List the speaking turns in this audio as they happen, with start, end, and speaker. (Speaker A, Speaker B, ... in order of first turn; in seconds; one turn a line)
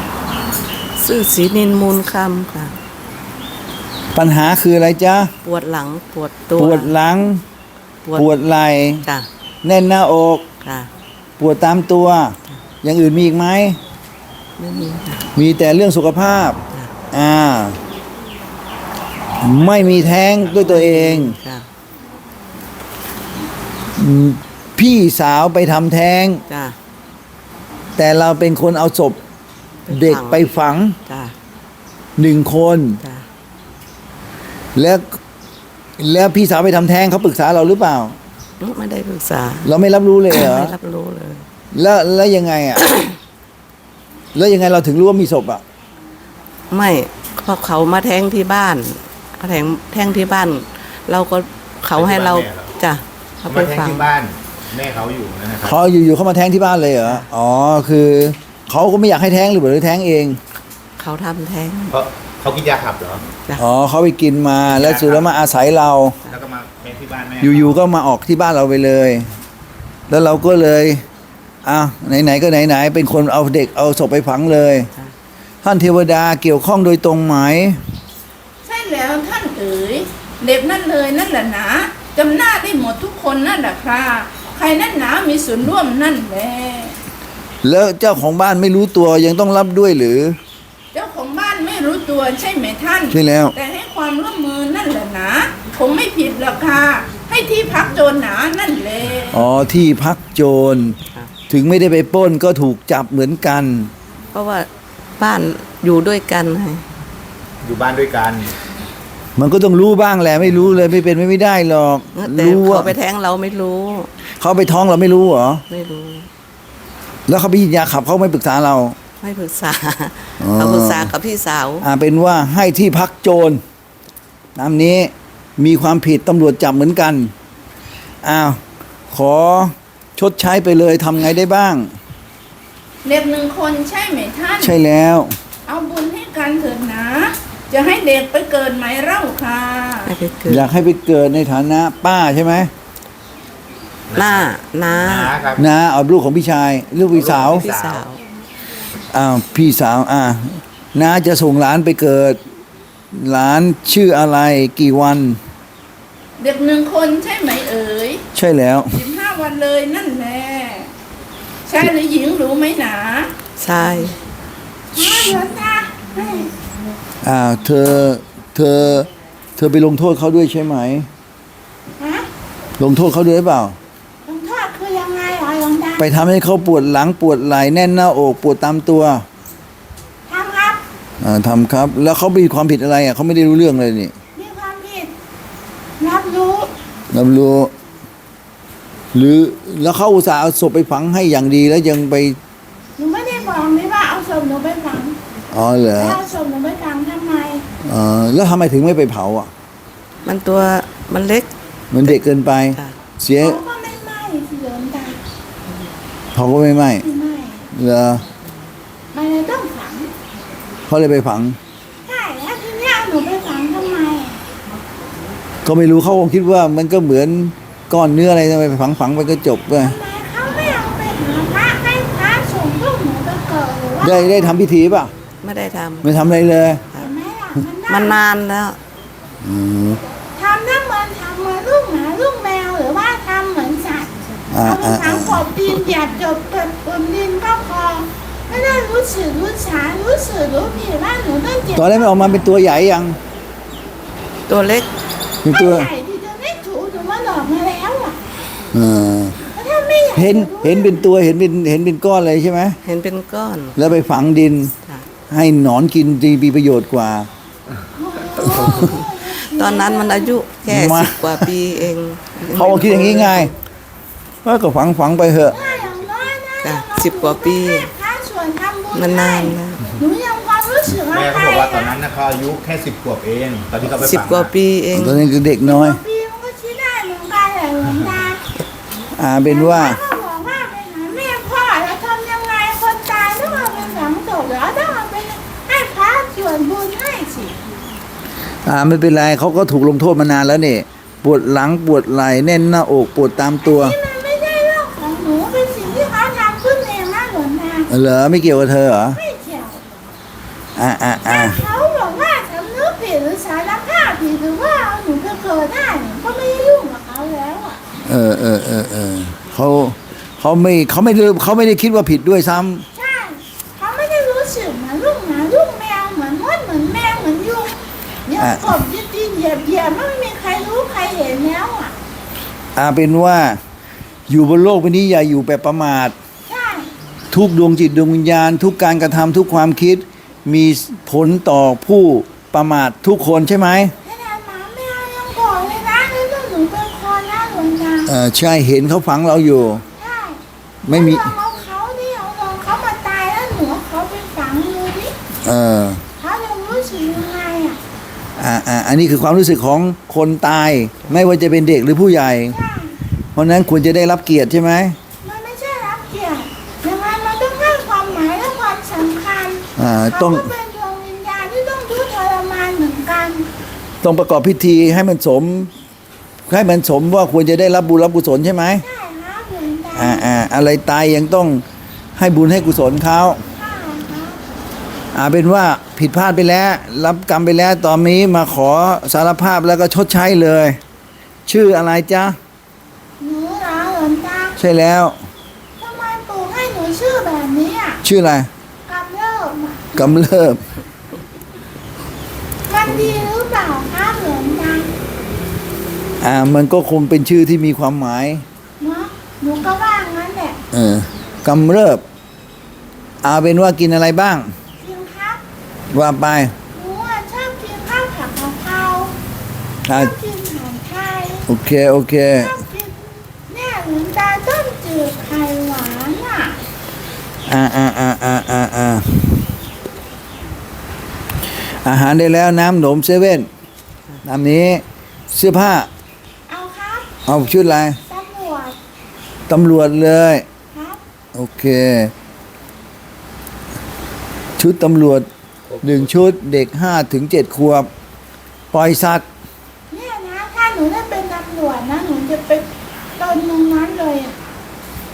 Speaker A: 1.0-2.7
Speaker B: 4.1-5.3
Speaker A: 5.4-6.9
Speaker B: 6.5-7.4
Speaker B: 8.1-9.1
Speaker B: 9.6-10.5
Speaker A: 10.6-10.9
Speaker B: 11.4-13.8
Speaker A: 14.6-15.3
Speaker B: 15.3-16.6
Speaker B: 17.1-17.8
Speaker B: 19.4-21.4
Speaker A: 20.5-21.7
Speaker B: 23.9-26.4
Speaker A: 26.5-26.8
Speaker B: 28.0-29.2
Speaker A: 29.9-30.5
Speaker B: 29.9-31.0
Speaker A: 31.1-31.3
Speaker B: 32.2-33.0
Speaker B: 34.7-35.2
Speaker B: 36.0-38.2
Speaker A: 38.6-39.7
Speaker B: 39.6-40.7
Speaker A: 40.3-41.4
Speaker B: 41.7-42.9
Speaker B: 44.3-45.6
Speaker A: 46.7-54.1
Speaker C: 51.9-52.7
Speaker C: 53.5-55.8
Speaker B: 55.6-60.4
Speaker A: 61.0-62.0
Speaker C: 61.9-63.3
Speaker B: 63.6-66.2
Speaker C: 64.7-65.3
Speaker C: 66.2-67.8
Speaker B: 67.4-69.3
Speaker B: 70.1-71.0
Speaker B: 71.6-74.9
Speaker B: 75.6-77.8
Speaker D: 78.6-86.9
Speaker B: 87.6-90.4
Speaker D: 90.9-99.3
Speaker B: 93.1-93.5
Speaker B: 99.3-101.0
Speaker B: 101.5-103.9
Speaker A: 104.3-106.8
Speaker C: 107.6-108.5
Speaker B: 109.4-112.9
Speaker A: 112.1-114.1
Speaker B: 114.4-115.6
Speaker A: 115.7-116.3
Speaker B: 117.3-119.0
Speaker A: 119.2-121.9
Speaker B: 120.4-121.1
Speaker B: 121.8-123.6
Speaker B: 124.5-127.3
Speaker B: 128.2-131.9
Speaker D: 133.0-134.8
Speaker B: 134.6-135.3
Speaker D: 135.7-140.1
Speaker A: 140.1-140.7
Speaker B: 140.5-142.7
Speaker C: 144.1-145.6
Speaker A: 144.1-145.3
Speaker B: 145.6-147.7
Speaker C: 147.1-148.0
Speaker A: 147.4-148.2
Speaker B: 149.1-152.4
Speaker B: 153.1-155.4
Speaker D: 156.4-158.2
Speaker B: 158.3-159.0
Speaker D: 158.9-160.9
Speaker D: 161.7-163.3
Speaker A: 163.6-164.2
Speaker D: 164.9-166.5
Speaker B: 165.0-165.3
Speaker B: 167.2-171.1
Speaker D: 172.0-172.3
Speaker B: 172.8-173.8
Speaker D: 174.2-176.1
Speaker B: 176.0-179.2
Speaker D: 180.3-180.8
Speaker B: 181.2-184.1
Speaker D: 184.3-185.1
Speaker D: 186.0-186.7
Speaker B: 187.1-187.7
Speaker B: 189.1-192.4
Speaker D: 193.0-195.2
Speaker B: 195.5-196.2
Speaker D: 196.0-197.6
Speaker B: 197.8-199.5
Speaker A: 200.2-201.5
Speaker B: 201.9-203.6
Speaker D: 203.4-205.2
Speaker B: 206.3-207.1
Speaker D: 207.0-207.7
Speaker B: 207.7-208.2
Speaker D: 209.1-210.1
Speaker B: 210.9-211.6
Speaker D: 212.0-214.4
Speaker B: 215.6-220.0
Speaker D: 219.8-224.6
Speaker B: 224.0-225.1
Speaker A: 225.4-226.2
Speaker B: 226.0-226.8
Speaker D: 226.9-228.2
Speaker A: 227.9-228.8
Speaker B: 229.4-230.0
Speaker D: 230.3-242.4
Speaker B: 234.5-235.5
Speaker B: 241.7-243.2
Speaker A: 244.5-244.9
Speaker B: 245.4-245.9
Speaker D: 245.5-248.2
Speaker B: 248.7-249.4
Speaker D: 249.5-251.0
Speaker B: 250.1-252.8
Speaker A: 252.8-253.8
Speaker B: 253.8-254.7
Speaker B: 255.3-257.3
Speaker D: 257.9-260.3
Speaker A: 258.6-263.5
Speaker B: 260.6-261.5
Speaker B: 262.5-263.5
Speaker B: 264.4-265.6
Speaker C: 265.4-266.4
Speaker D: 265.6-271.9
Speaker A: 266.6-267.9
Speaker A: 268.9-269.8
Speaker C: 271.1-274.5
Speaker A: 273.9-275.3
Speaker B: 274.9-276.0
Speaker D: 275.6-278.4
Speaker B: 279.1-280.0
Speaker D: 279.4-287.6
Speaker B: 288.6-294.0
Speaker D: 293.6-297.9
Speaker B: 297.9-299.2
Speaker D: 299.1-299.8
Speaker B: 300.8-301.6
Speaker D: 301.2-307.8
Speaker B: 308.0-312.8
Speaker D: 312.9-321.9
Speaker B: 318.4-318.7
Speaker B: 322.7-323.6
Speaker B: 324.3-326.1
Speaker D: 326.5-326.9
Speaker B: 327.3-333.9
Speaker D: 334.0-338.1
Speaker B: 338.1-339.8
Speaker D: 339.9-345.1
Speaker B: 340.8-341.3
Speaker B: 345.4-346.0
Speaker D: 346.2-347.8
Speaker B: 348.4-352.6
Speaker D: 352.5-353.0
Speaker B: 353.3-355.0
Speaker D: 355.2-363.5
Speaker B: 359.8-360.5
Speaker B: 364.0-365.7
Speaker B: 366.5-368.8
Speaker D: 368.8-370.3
Speaker B: 369.9-371.6
Speaker B: 372.1-373.4
Speaker D: 373.5-374.4
Speaker B: 375.1-380.8
Speaker B: 381.5-382.4
Speaker D: 383.2-384.6
Speaker B: 384.6-385.2
Speaker D: 385.8-388.0
Speaker B: 388.0-388.5
Speaker D: 388.9-390.2
Speaker B: 389.9-390.6
Speaker D: 392.7-394.9
Speaker B: 396.2-398.4
Speaker D: 398.8-400.6
Speaker B: 400.7-402.0
Speaker B: 403.2-404.5
Speaker D: 404.8-405.4
Speaker B: 405.9-406.5
Speaker D: 406.7-409.2
Speaker B: 409.9-410.1
Speaker D: 409.9-411.5
Speaker B: 411.5-412.6
Speaker D: 412.3-416.5
Speaker B: 417.5-419.5
Speaker B: 421.8-423.5
Speaker B: 424.2-425.9
Speaker D: 426.5-427.4
Speaker B: 427.2-428.0
Speaker D: 427.9-428.8
Speaker B: 429.5-430.4
Speaker D: 430.7-431.0
Speaker B: 431.3-432.1
Speaker B: 434.6-435.3
Speaker C: 435.7-436.1
Speaker B: 435.8-437.9
Speaker B: 438.7-439.2
Speaker D: 439.9-444.4